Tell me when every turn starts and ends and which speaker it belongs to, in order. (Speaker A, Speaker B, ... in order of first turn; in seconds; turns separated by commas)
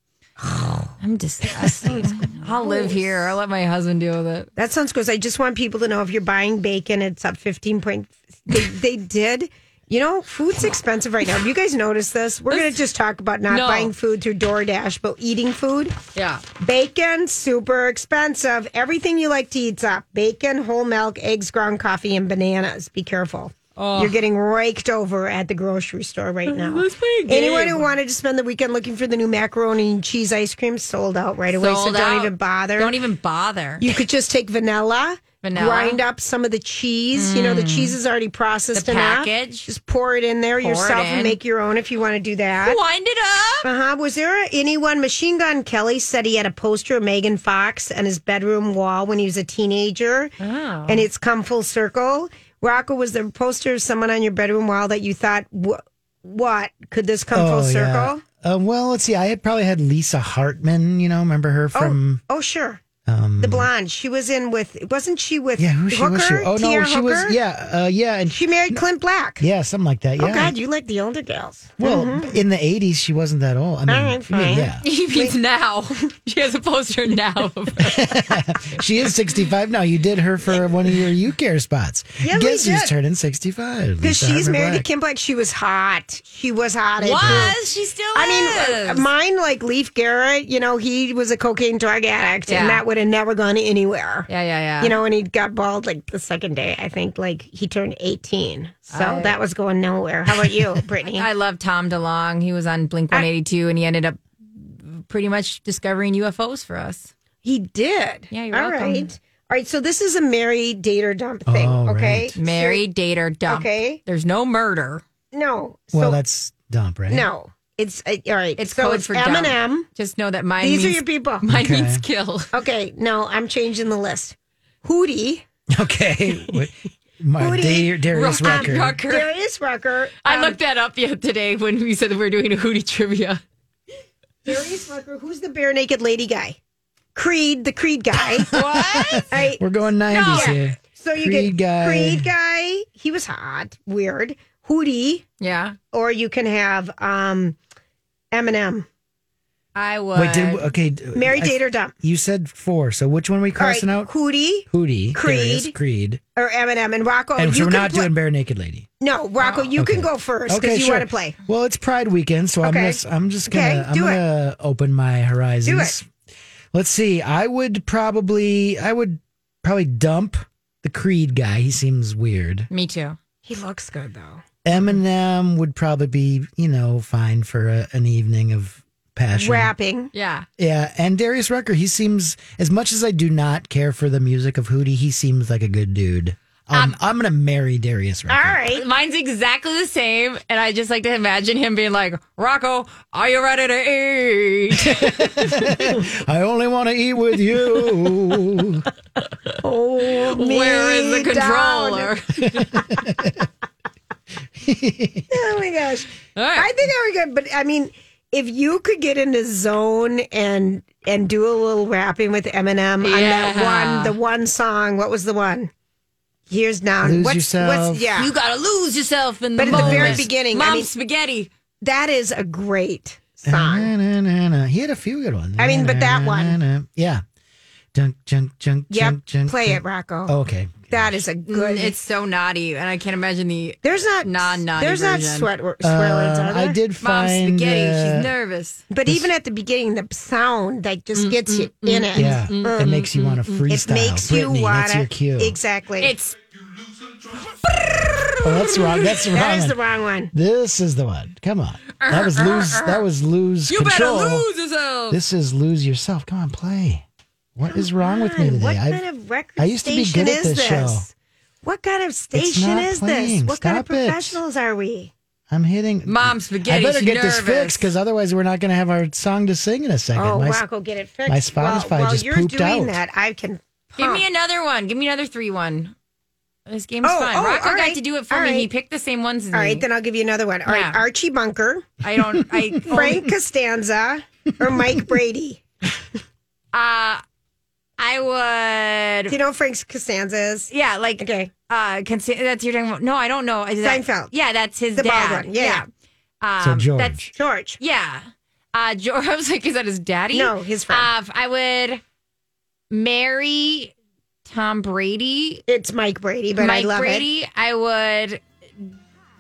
Speaker A: 0.4-0.9, Speaker B: 1.0-4.5, Speaker A: 1.5-3.3, Speaker A: 4.6-16.0, Speaker B: 12.5-12.8, Speaker B: 13.5-13.9, Speaker B: 16.1-16.4, Speaker A: 16.6-33.0, Speaker B: 23.8-24.1, Speaker B: 26.5-27.9, Speaker B: 31.6-33.9, Speaker A: 33.8-42.8, Speaker B: 35.4-36.0, Speaker B: 37.1-38.0, Speaker B: 38.7-39.7, Speaker B: 40.6-41.4, Speaker B: 42.6-43.7, Speaker A: 43.6-50.3, Speaker B: 50.4-51.1, Speaker A: 50.9-58.2, Speaker C: 57.3-62.2, Speaker A: 61.8-62.8, Speaker C: 63.1-63.7, Speaker A: 63.4-67.4, Speaker C: 65.6-68.8, Speaker A: 68.3-69.5, Speaker C: 69.4-70.5, Speaker A: 70.2-72.3, Speaker C: 71.8-74.8, Speaker A: 73.9-75.4, Speaker B: 74.8-78.1, Speaker C: 77.8-84.9, Speaker A: 82.2-82.9, Speaker A: 84.0-87.6, Speaker B: 87.0-89.1, Speaker C: 87.2-87.5, Speaker A: 88.1-94.3, Speaker B: 92.5-92.8, Speaker B: 94.3-95.0, Speaker A: 94.8-101.3, Speaker B: 98.9-99.4, Speaker B: 101.0-107.1, Speaker A: 107.4-112.8, Speaker B: 108.3-109.1, Speaker C: 111.5-112.3, Speaker B: 112.4-115.0, Speaker A: 113.5-114.0, Speaker A: 115.3-116.2, Speaker C: 115.9-117.3, Speaker A: 117.1-119.9, Speaker B: 118.6-122.5, Speaker A: 120.6-121.5, Speaker C: 121.5-122.0, Speaker A: 122.5-125.5, Speaker C: 125.7-129.0, Speaker A: 127.4-130.6, Speaker B: 128.1-129.3, Speaker B: 130.2-133.4, Speaker A: 134.4-136.6, Speaker A: 137.2-138.5, Speaker C: 138.3-142.3, Speaker B: 138.4-139.3, Speaker A: 139.3-139.6, Speaker B: 140.1-140.6, Speaker A: 140.3-145.3, Speaker B: 145.4-145.8, Speaker A: 145.9-147.6, Speaker A: 148.3-148.9, Speaker B: 149.8-150.7, Speaker C: 150.2-154.1, Speaker A: 151.2-151.9, Speaker A: 153.6-155.8, Speaker C: 154.7-156.2, Speaker A: 156.4-158.1, Speaker C: 157.4-158.9, Speaker A: 159.0-161.4, Speaker B: 159.4-159.7, Speaker C: 159.8-166.1, Speaker A: 162.6-164.2, Speaker A: 165.7-165.9, Speaker C: 166.7-172.7, Speaker B: 172.7-173.2, Speaker A: 173.5-174.4, Speaker C: 174.7-179.7, Speaker A: 179.4-180.1, Speaker B: 180.1-180.5, Speaker C: 180.6-188.6, Speaker B: 186.7-187.0, Speaker A: 188.3-188.8, Speaker B: 188.7-195.6, Speaker C: 194.8-198.9, Speaker B: 199.3-199.6, Speaker A: 199.6-202.1, Speaker B: 200.1-202.8, Speaker C: 202.4-203.5, Speaker C: 204.6-205.3, Speaker A: 205.3-215.7, Speaker B: 206.3-206.7, Speaker B: 213.0-214.2, Speaker A: 216.5-218.3, Speaker C: 217.0-218.1, Speaker B: 218.2-221.5, Speaker A: 219.6-220.9, Speaker C: 219.6-220.3, Speaker A: 221.8-223.9, Speaker C: 223.4-227.2, Speaker A: 225.6-226.6, Speaker C: 227.9-231.2, Speaker A: 228.9-230.3, Speaker A: 230.9-232.0, Speaker B: 231.5-235.5, Speaker A: 233.8-236.8, Speaker C: 235.8-238.3, Speaker B: 237.0-238.9, Speaker A: 238.9-243.0, Speaker B: 241.2-243.7, Speaker C: 242.2-245.6, Speaker A: 243.7-246.2, Speaker B: 246.0-246.4, Speaker B: 247.6-249.2, Speaker C: 248.4-249.8, Speaker A: 249.3-250.3, Speaker C: 250.3-254.5, Speaker B: 252.0-253.0, Speaker B: 253.7-255.2, Speaker C: 255.1-257.1, Speaker C: 257.6-259.0, Speaker A: 257.7-261.1, Speaker C: 259.6-261.1, Speaker A: 261.6-265.1, Speaker C: 262.3-264.4, Speaker C: 265.5-270.6, Speaker B: 266.1-267.9, Speaker A: 270.2-274.3, Speaker C: 271.3-273.0, Speaker B: 274.0-275.9, Speaker B: 276.7-279.9, Speaker A: 277.0-278.7, Speaker A: 279.5-281.9, Speaker B: 280.7-281.0, Speaker B: 282.0-283.3, Speaker C: 282.2-282.8, Speaker A: 282.9-285.6, Speaker B: 286.7-287.2, Speaker B: 288.0-289.4, Speaker A: 289.3-291.5, Speaker B: 290.7-295.9, Speaker A: 293.8-294.3, Speaker A: 294.9-295.8, Speaker B: 296.4-297.2, Speaker C: 296.6-297.3, Speaker A: 297.4-297.8, Speaker B: 297.8-302.0, Speaker A: 300.3-301.1, Speaker B: 302.9-303.9, Speaker B: 304.5-305.6, Speaker A: 305.7-307.3, Speaker B: 306.6-308.9